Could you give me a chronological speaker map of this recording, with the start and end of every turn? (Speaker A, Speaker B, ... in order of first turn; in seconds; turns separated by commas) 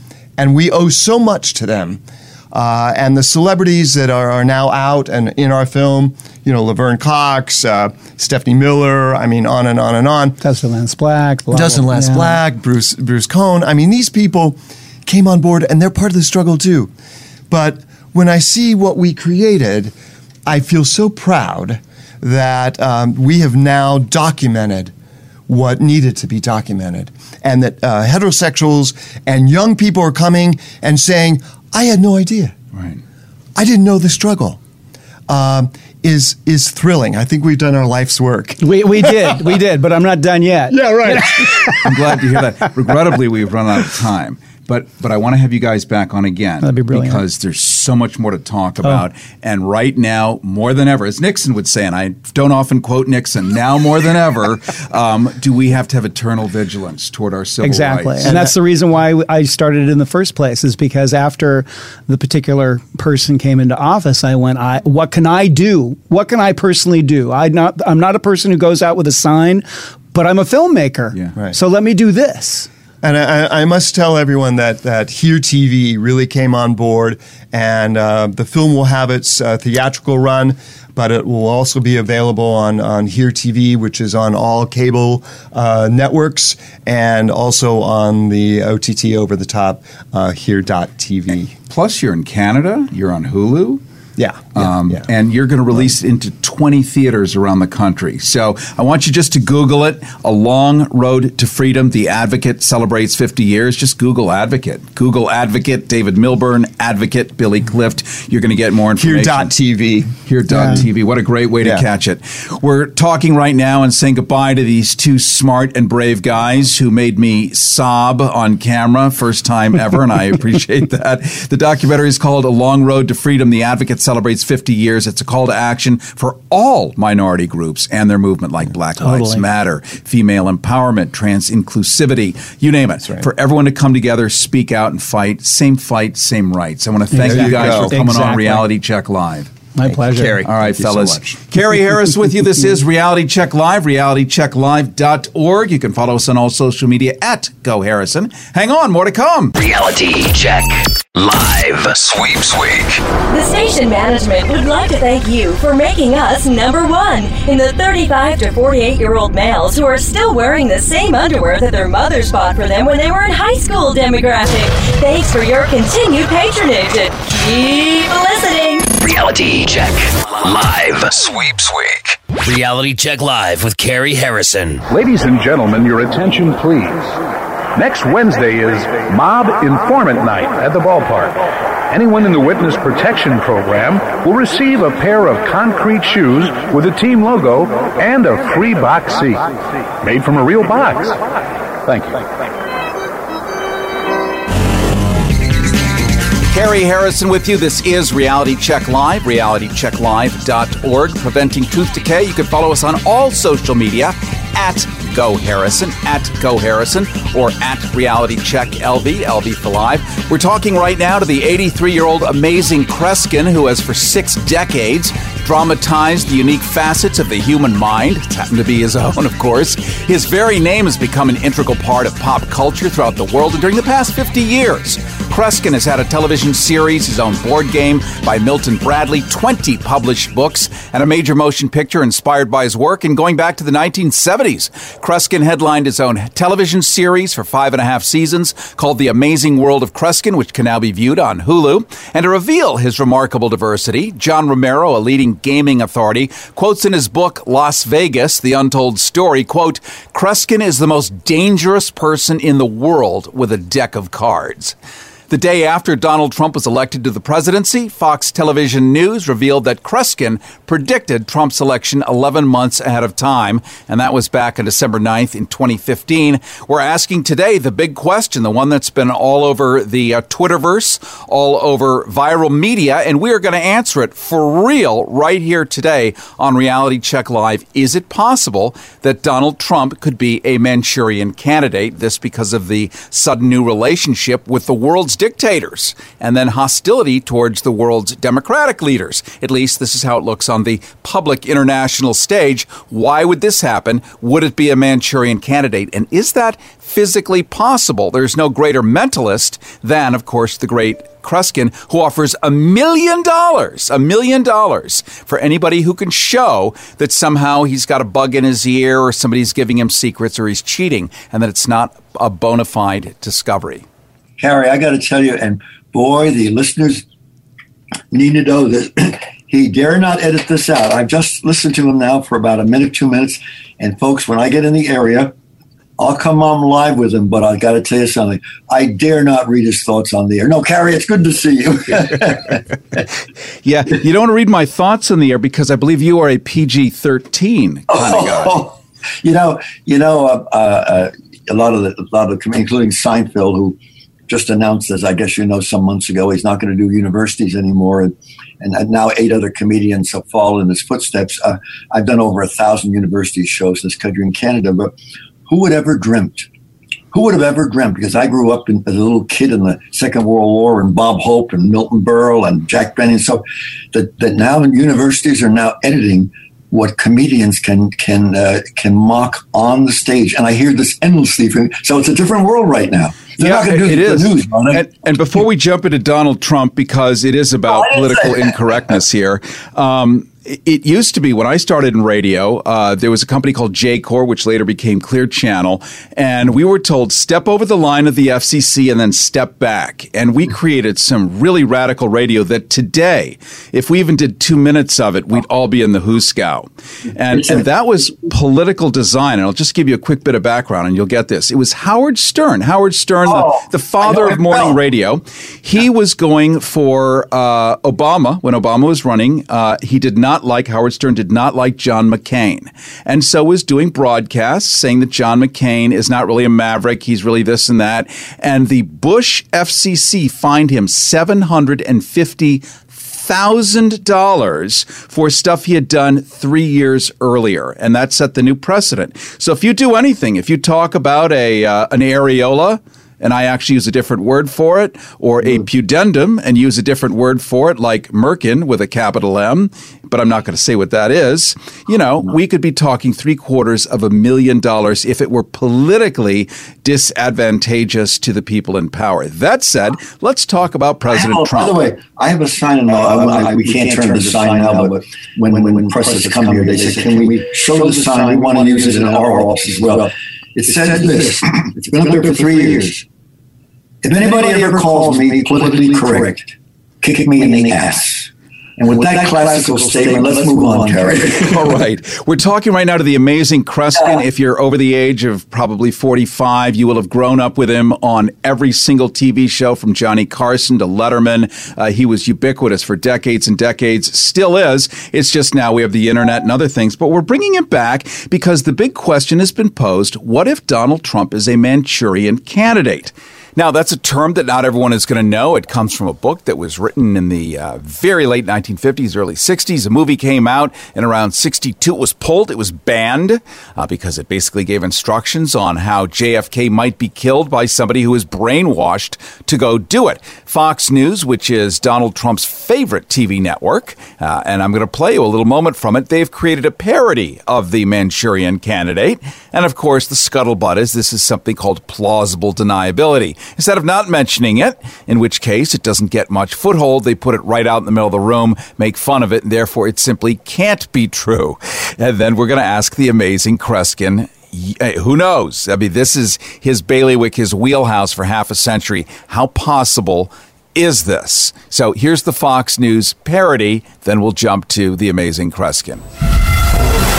Speaker A: 0.4-10.4, Speaker B: 10.4-12.4, Speaker A: 11.5-16.9, Speaker A: 17.5-19.9, Speaker A: 20.5-24.9, Speaker A: 25.5-32.5, Speaker C: 32.8-33.0, Speaker A: 33.6-34.6, Speaker A: 35.3-39.4, Speaker B: 38.6-41.9, Speaker A: 40.7-41.8, Speaker C: 41.8-58.4, Speaker B: 46.6-47.2, Speaker B: 57.6-72.7, Speaker A: 58.2-58.5, Speaker A: 73.0-91.5, Speaker C: 91.7-93.8, Speaker A: 94.2-95.1, Speaker C: 94.5-109.6, Speaker A: 109.0-110.1, Speaker C: 110.2-139.5, Speaker B: 110.5-110.8, Speaker B: 129.0-129.4, Speaker B: 137.1-138.7, Speaker A: 137.2-138.0, Speaker B: 139.8-140.4, Speaker A: 139.8-141.4, Speaker C: 140.4-149.6, Speaker D: 149.6-153.0, Speaker E: 153.3-168.9, Speaker D: 169.0-174.8, Speaker F: 174.9-177.0, Speaker F: 177.8-181.3, Speaker F: 181.9-189.4, Speaker F: 190.0-191.1, Speaker F: 191.9-192.2, Speaker C: 196.5-254.8, Speaker C: 255.3-313.9, Speaker G: 314.4-317.0, Speaker G: 318.1-325.3, Speaker G: 326.0-332.6, Speaker C: 333.6-338.7, Speaker G: 337.9-338.7, Speaker G: 339.2-343.8, Speaker G: 344.3-354.9, Speaker G: 355.5-356.5, Speaker G: 357.1-374.9, Speaker C: 373.4-451.9, Speaker G: 377.7-379.0, Speaker G: 397.3-397.7, Speaker G: 403.3-404.8, Speaker G: 451.1-463.0, Speaker G: 464.0-466.5, Speaker G: 467.0-471.8, Speaker C: 471.1-546.0